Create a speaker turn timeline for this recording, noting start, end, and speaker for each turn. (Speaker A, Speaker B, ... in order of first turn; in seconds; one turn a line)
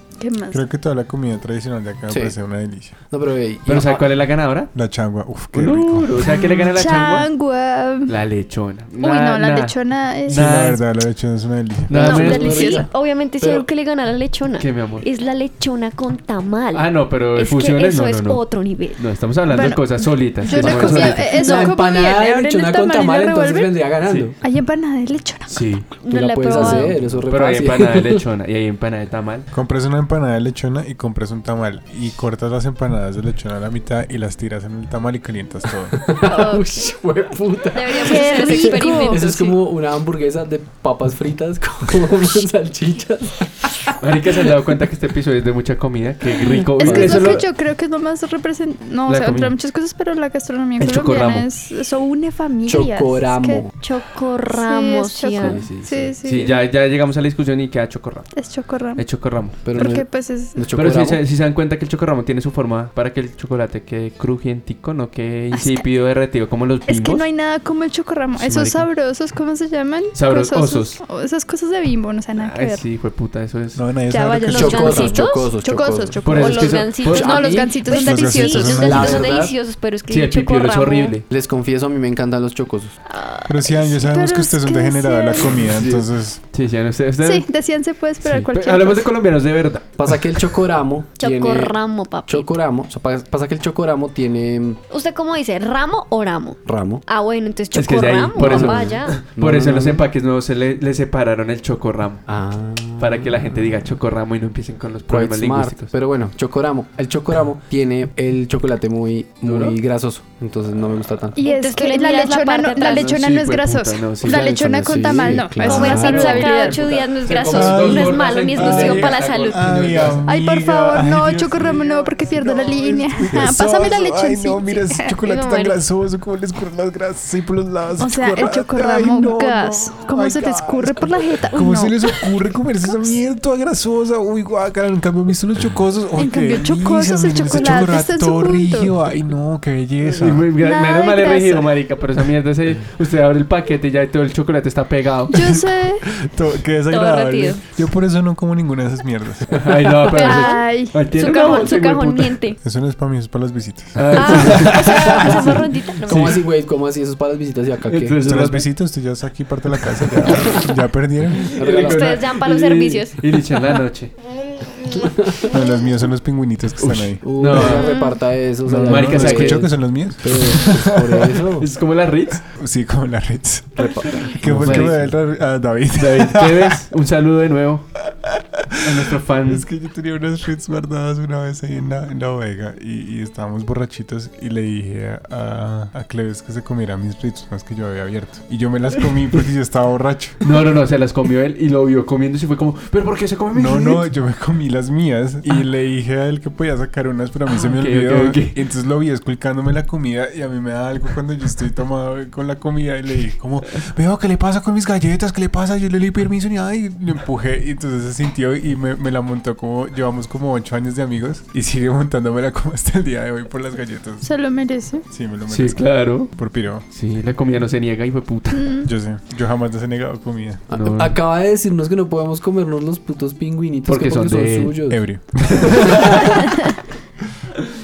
Speaker A: 0.2-0.6
Speaker B: 0.5-3.0
Speaker C: 2.1-2.4
Speaker C: 3.1-4.1
Speaker D: 3.7-4.7
Speaker B: 4.7-6.1
Speaker D: 5.5-7.3
Speaker A: 6.5-8.1
Speaker D: 8.1-9.8
Speaker A: 9.0-10.5
Speaker D: 10.3-10.8
Speaker B: 10.3-12.0
Speaker D: 11.9-12.6
Speaker A: 11.9-12.9
Speaker E: 12.0-19.0
Speaker C: 12.1-13.7
Speaker D: 14.6-15.1
Speaker D: 16.7-18.4
Speaker D: 19.0-21.7
Speaker A: 19.5-23.7
Speaker C: 20.5-24.4
Speaker D: 24.1-24.3
Speaker A: 24.4-25.7
Speaker D: 25.5-25.9
Speaker E: 26.0-27.0
Speaker C: 26.1-28.2
Speaker D: 26.6-29.5
Speaker B: 29.5-36.0
Speaker C: 35.9-44.5
Speaker E: 36.2-36.7
Speaker E: 37.7-39.6
Speaker A: 38.0-39.2
Speaker D: 44.0-47.5
Speaker A: 46.5-53.7
Speaker D: 49.1-49.5
Speaker D: 50.8-51.5
Speaker C: 52.7-53.7
Speaker E: 53.8-55.6
Speaker A: 54.5-56.6
Speaker C: 55.4-56.1
Speaker D: 55.5-58.3
Speaker A: 58.3-59.0
Speaker D: 59.0-59.6
Speaker C: 59.6-61.2
Speaker A: 59.7-60.7
Speaker D: 60.7-67.3
Speaker A: 65.5-65.9
Speaker A: 66.9-72.8
Speaker D: 68.4-68.9
Speaker D: 70.1-71.0
Speaker D: 72.4-73.8
Speaker B: 73.8-75.2
Speaker A: 74.1-79.0
Speaker E: 74.5-75.5
Speaker C: 74.5-76.2
Speaker D: 76.2-77.6
Speaker E: 76.3-81.2
Speaker B: 77.9-79.4
Speaker C: 78.8-79.5
Speaker D: 80.1-81.2
Speaker C: 81.3-83.0
Speaker E: 83.0-83.8
Speaker B: 83.5-86.4
Speaker A: 83.7-85.6
Speaker D: 85.5-87.5
Speaker A: 87.2-89.1
Speaker D: 88.2-90.4
Speaker C: 90.0-91.8
Speaker E: 91.2-92.5
Speaker C: 92.3-94.8
Speaker E: 94.9-99.2
Speaker C: 96.7-97.0
Speaker D: 97.7-102.2
Speaker C: 98.4-100.1
Speaker C: 102.3-103.5
Speaker D: 103.0-105.9
Speaker C: 105.1-111.4
Speaker D: 109.4-109.8
Speaker A: 111.4-116.8
Speaker E: 111.4-113.2
Speaker D: 112.8-120.2
Speaker C: 114.2-117.8
Speaker E: 115.6-119.7
Speaker B: 117.5-140.5
Speaker C: 118.6-119.2
Speaker A: 120.2-125.2
Speaker D: 121.3-122.6
Speaker E: 125.2-125.8
Speaker A: 128.0-133.1
Speaker A: 136.2-138.9
Speaker D: 140.1-145.4
Speaker A: 140.6-141.7
Speaker A: 145.3-146.0
Speaker B: 145.4-149.7
Speaker E: 146.9-147.6
Speaker D: 149.5-152.4
Speaker A: 150.2-151.0
Speaker E: 150.2-152.6
Speaker B: 152.6-155.6
Speaker D: 153.9-156.4
Speaker E: 154.2-156.4
Speaker C: 156.1-158.2
Speaker D: 157.9-158.7
Speaker B: 158.2-161.6
Speaker C: 160.3-160.5
Speaker C: 161.4-162.2
Speaker D: 161.4-164.1
Speaker E: 161.7-163.3
Speaker C: 164.9-165.5
Speaker B: 165.5-167.8
Speaker D: 166.8-168.0
Speaker C: 167.2-171.7
Speaker E: 167.7-168.2
Speaker B: 168.7-171.4
Speaker D: 168.8-169.7
Speaker D: 171.6-172.4
Speaker B: 172.5-176.8
Speaker C: 173.8-175.2
Speaker E: 174.0-174.4
Speaker D: 174.5-175.0
Speaker D: 176.0-177.9
Speaker B: 178.3-190.5
Speaker D: 178.8-179.7
Speaker D: 190.4-194.1
Speaker B: 193.5-214.3
Speaker D: 197.5-198.6
Speaker A: 214.2-215.1
Speaker B: 215.1-216.9
Speaker D: 215.5-216.3
Speaker D: 216.9-218.8
Speaker A: 218.5-218.9
Speaker B: 218.8-220.7
Speaker C: 220.7-225.1
Speaker D: 220.7-221.2
Speaker D: 223.9-224.8
Speaker B: 224.9-226.1
Speaker D: 225.6-226.5
Speaker C: 225.8-226.1